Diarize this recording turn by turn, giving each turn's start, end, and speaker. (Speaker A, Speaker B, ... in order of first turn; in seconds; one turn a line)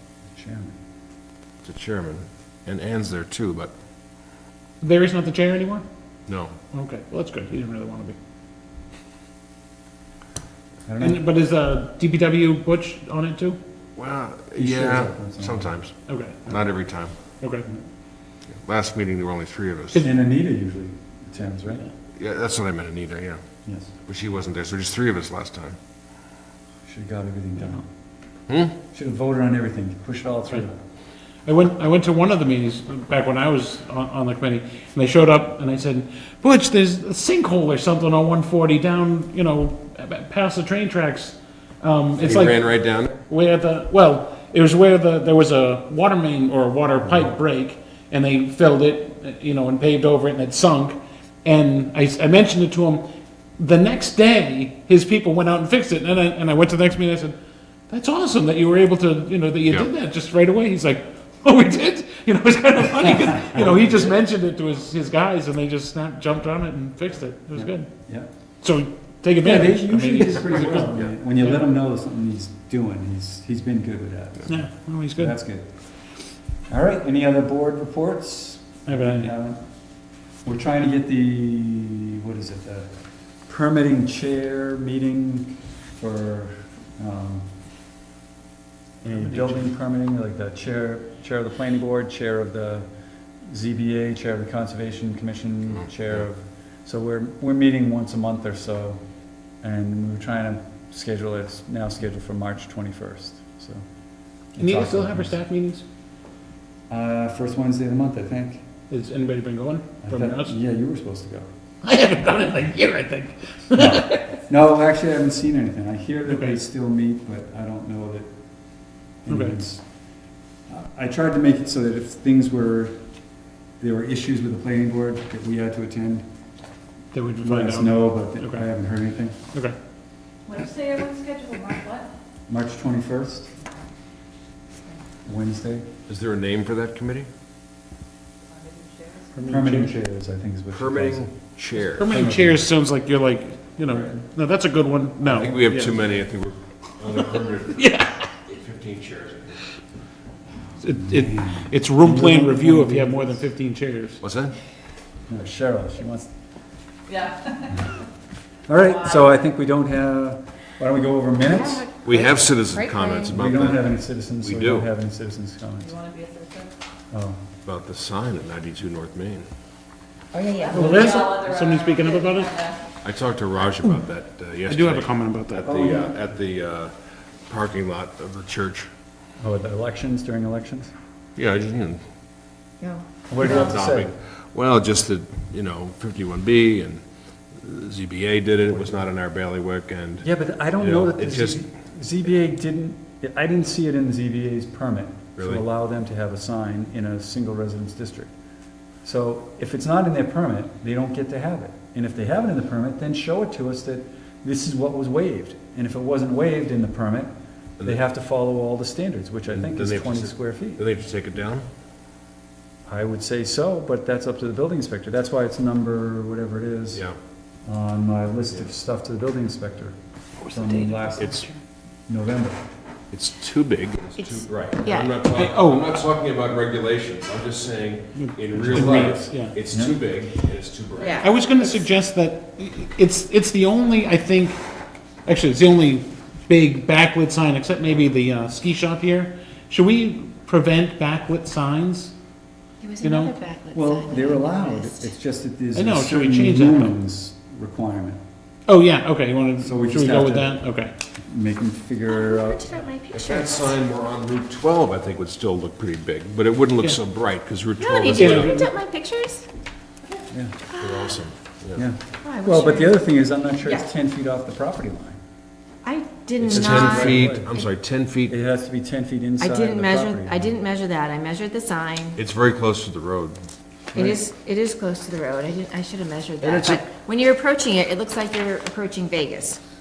Speaker A: 0.3-0.7
Speaker B: 1.6-3.7
Speaker C: 4.8-5.8
Speaker B: 6.3-6.5
Speaker C: 6.7-8.2
Speaker A: 10.9-11.2
Speaker C: 11.0-13.6
Speaker B: 13.9-15.9
Speaker A: 14.6-15.7
Speaker C: 16.1-16.6
Speaker B: 16.4-17.1
Speaker C: 17.4-17.6
Speaker B: 18.6-20.0
Speaker A: 20.0-21.9
Speaker B: 22.1-23.4
Speaker A: 23.6-23.9
Speaker B: 24.0-25.8
Speaker A: 26.8-27.9
Speaker B: 28.5-28.8
Speaker A: 28.9-30.8
Speaker C: 31.4-53.0
Speaker B: 42.2-43.2
Speaker C: 53.6-57.3
Speaker C: 57.9-67.9
Speaker A: 63.5-64.1
Speaker A: 67.5-68.3
Speaker C: 68.6-71.6
Speaker A: 69.4-75.7
Speaker C: 74.5-75.4
Speaker A: 76.7-79.6
Speaker C: 78.8-79.3
Speaker A: 80.4-82.9
Speaker A: 83.5-87.5
Speaker A: 89.0-92.9
Speaker C: 89.0-89.7
Speaker A: 93.5-99.0
Speaker A: 99.6-103.8
Speaker A: 104.5-105.4
Speaker C: 104.6-105.8
Speaker A: 106.9-108.6
Speaker C: 108.9-110.6
Speaker A: 110.0-111.5
Speaker C: 111.8-114.4
Speaker A: 113.7-118.3
Speaker C: 116.3-116.6
Speaker A: 119.2-119.8
Speaker C: 119.3-119.5
Speaker A: 120.7-123.0
Speaker A: 123.8-126.2
Speaker C: 127.1-128.7
Speaker A: 127.4-129.4
Speaker D: 130.5-132.1
Speaker A: 132.5-133.5
Speaker A: 135.2-135.9
Speaker B: 136.1-137.3
Speaker D: 138.5-139.3
Speaker C: 139.3-139.9
Speaker A: 139.4-141.3
Speaker B: 140.7-142.4
Speaker C: 142.0-146.0
Speaker A: 142.1-142.6
Speaker A: 143.8-144.2
Speaker B: 145.2-147.9
Speaker C: 147.7-148.3
Speaker B: 148.4-149.6
Speaker C: 150.8-154.2
Speaker A: 150.9-153.5
Speaker B: 154.2-154.5
Speaker A: 155.3-156.3
Speaker A: 158.7-161.9
Speaker E: 161.4-163.3
Speaker B: 162.0-164.9
Speaker A: 163.3-166.0
Speaker D: 165.8-166.7
Speaker A: 167.1-167.4
Speaker B: 167.6-169.4
Speaker E: 170.3-171.1
Speaker D: 170.7-172.8
Speaker C: 170.7-172.7
Speaker A: 170.8-171.2
Speaker B: 173.0-176.9
Speaker C: 174.6-175.9
Speaker A: 175.6-176.2
Speaker B: 177.5-178.9
Speaker A: 179.4-180.9
Speaker B: 181.3-182.0
Speaker E: 182.8-183.1
Speaker A: 183.3-184.1
Speaker B: 183.4-187.0
Speaker B: 187.5-190.3
Speaker A: 190.2-198.3
Speaker B: 190.8-191.6
Speaker B: 195.4-195.6
Speaker A: 199.0-207.3
Speaker A: 207.8-210.8
Speaker B: 209.5-211.7
Speaker A: 212.9-217.1
Speaker A: 217.6-219.9
Speaker C: 220.4-221.6
Speaker A: 220.5-221.4
Speaker B: 221.2-221.4
Speaker A: 222.1-222.6
Speaker B: 223.1-231.2
Speaker E: 224.2-225.1
Speaker C: 225.3-226.0
Speaker C: 228.2-229.6
Speaker A: 228.5-230.0
Speaker E: 231.0-231.8
Speaker C: 231.2-234.6
Speaker C: 235.3-242.1
Speaker E: 242.8-245.0
Speaker C: 243.0-243.3
Speaker A: 243.7-248.2
Speaker C: 245.7-247.0
Speaker C: 248.7-250.9
Speaker A: 249.6-250.6
Speaker A: 251.2-252.8
Speaker E: 252.1-253.8
Speaker B: 253.1-258.5
Speaker E: 257.8-259.5
Speaker C: 258.1-258.7
Speaker A: 260.3-260.6
Speaker E: 260.7-261.2
Speaker B: 260.8-261.8
Speaker A: 261.7-265.2
Speaker E: 262.2-263.0
Speaker E: 265.8-267.7
Speaker B: 266.4-268.3
Speaker A: 266.5-267.5
Speaker A: 268.3-270.6
Speaker E: 269.4-272.2
Speaker B: 272.1-273.4
Speaker A: 273.9-274.2
Speaker E: 273.9-279.6
Speaker B: 276.4-276.8